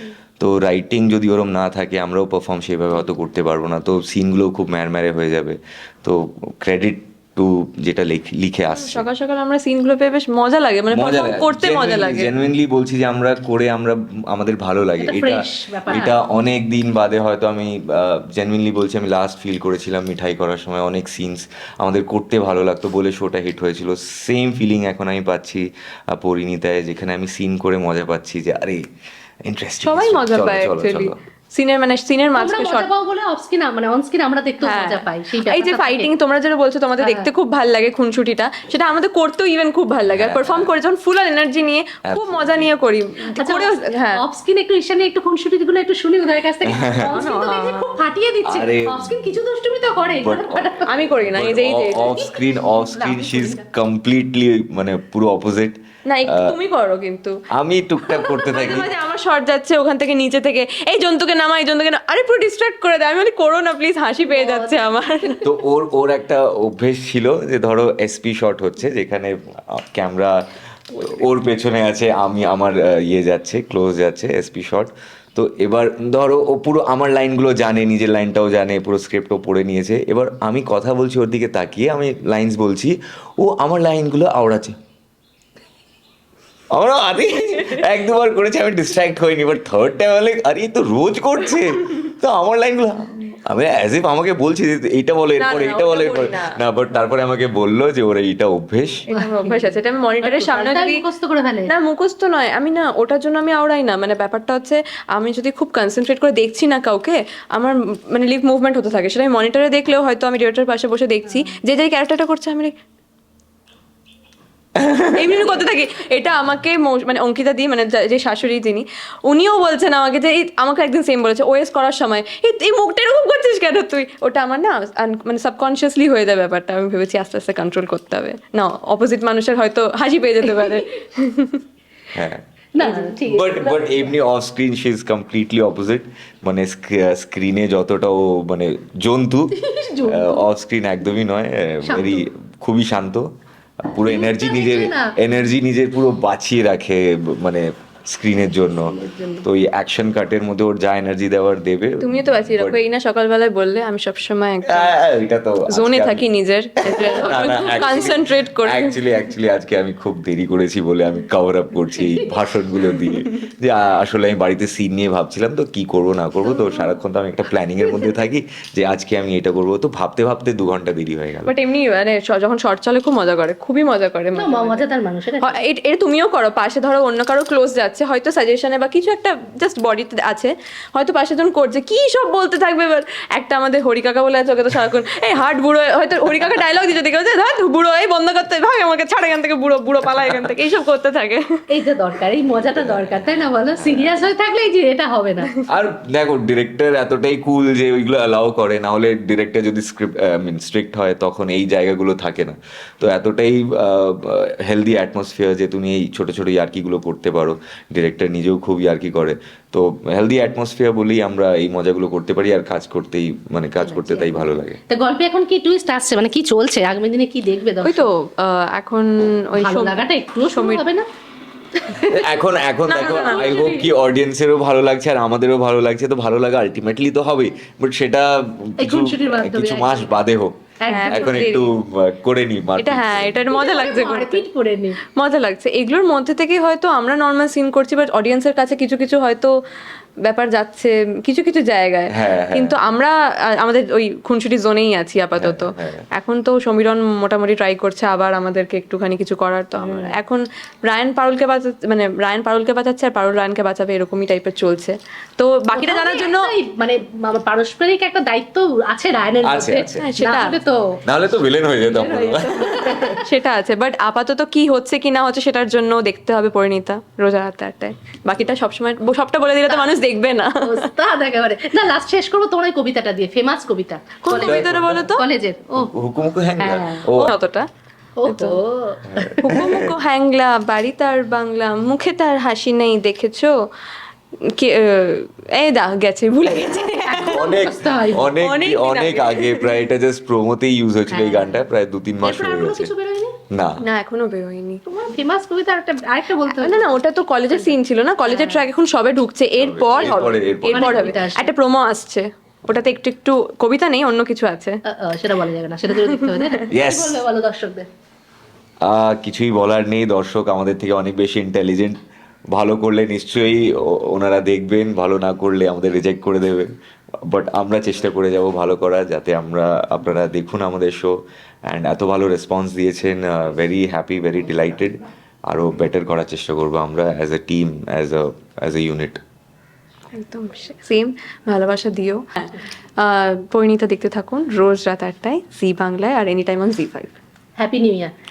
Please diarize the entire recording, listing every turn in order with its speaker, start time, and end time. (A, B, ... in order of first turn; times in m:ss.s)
0:00.4-0:09.1 A
0:08.7-0:12.3 B
0:10.9-0:28.8 A
0:15.0-0:16.2 C
0:29.4-0:31.2 A
0:29.8-0:32.9 B
0:32.4-0:36.1 C
0:34.6-0:44.2 B
0:37.0-0:37.3 C
0:40.1-0:40.7 A
0:42.0-0:42.7 A
0:43.4-0:50.8 C
0:46.6-0:47.2 A
0:47.0-0:48.0 B
0:48.5-0:49.3 A
0:50.2-0:56.5 A
0:50.9-0:52.2 B
0:52.0-0:53.6 C
0:56.0-0:57.4 B
0:57.5-0:58.9 A
0:58.0-1:05.4 B
1:04.3-1:05.1 C
1:05.4-1:10.3 A
1:10.9-1:24.7 A
1:26.7-1:39.0 A
1:35.4-1:36.5 B
1:39.1-1:41.0 B
1:39.1-1:41.7 C
1:41.7-1:52.7 B
1:54.8-1:55.2 A
1:55.1-2:11.6 B
2:10.5-2:10.8 C
2:12.1-2:12.4 A
2:12.7-2:14.0 C
2:12.8-2:13.1 B
2:13.2-2:23.3 A
2:19.5-2:20.4 C
2:21.8-2:22.3 C
2:23.8-2:32.8 A
2:24.0-2:25.1 C
2:32.0-2:35.0 B
2:34.6-2:36.3 A
2:35.7-2:39.0 B
2:36.8-2:51.5 A
2:46.6-2:46.9 B
2:51.4-2:54.8 B
2:54.3-2:55.6 C
2:55.4-3:11.4 B
3:11.7-3:15.5 C
3:12.5-3:14.2 A
3:15.7-3:34.8 A
3:33.8-3:38.1 C
3:37.8-3:40.8 B
3:39.6-3:41.1 C
3:41.8-3:42.2 C
3:42.0-3:53.4 A
3:42.9-3:43.9 B
3:43.1-3:43.7 C
3:48.8-3:50.1 C
3:50.8-3:51.4 C
3:50.9-3:51.7 B
3:52.8-3:54.4 B
3:53.5-3:55.0 C
3:55.1-3:59.5 B
4:00.2-4:16.5 B
4:02.1-4:02.8 A
4:05.4-4:06.0 A
4:09.8-4:10.1 A
4:15.7-4:21.0 C
4:19.4-4:20.0 A
4:20.0-4:20.6 B
4:21.0-4:23.0 A
4:21.9-4:23.3 C
4:23.2-4:30.9 B
4:29.7-4:29.9 C
4:30.6-4:35.9 C
4:34.2-4:35.2 B
4:34.3-4:35.1 A
4:35.7-4:37.3 A
4:36.6-4:37.0 C
4:37.1-4:37.7 B
4:38.2-4:39.7 C
4:38.2-4:38.6 B
4:39.1-4:39.8 A
4:39.4-4:43.6 B
4:44.5-4:47.5 B
4:47.0-4:48.4 C
4:47.3-4:52.9 A
4:48.3-4:49.7 B
4:51.1-4:51.6 C
4:52.2-4:53.4 C
4:53.5-4:53.8 A
4:53.8-4:54.8 B
4:54.9-4:57.0 C
4:56.5-5:04.8 B
4:57.6-4:58.6 C
4:59.6-5:01.1 A
5:00.7-5:01.5 C
5:04.8-5:07.9 C
5:06.0-5:06.6 B
5:06.7-5:07.2 A
5:08.8-5:12.0 A
5:12.5-5:16.7 A
5:17.3-5:21.1 A
5:21.6-5:29.2 A
5:30.1-5:37.1 B
5:37.6-5:38.1 C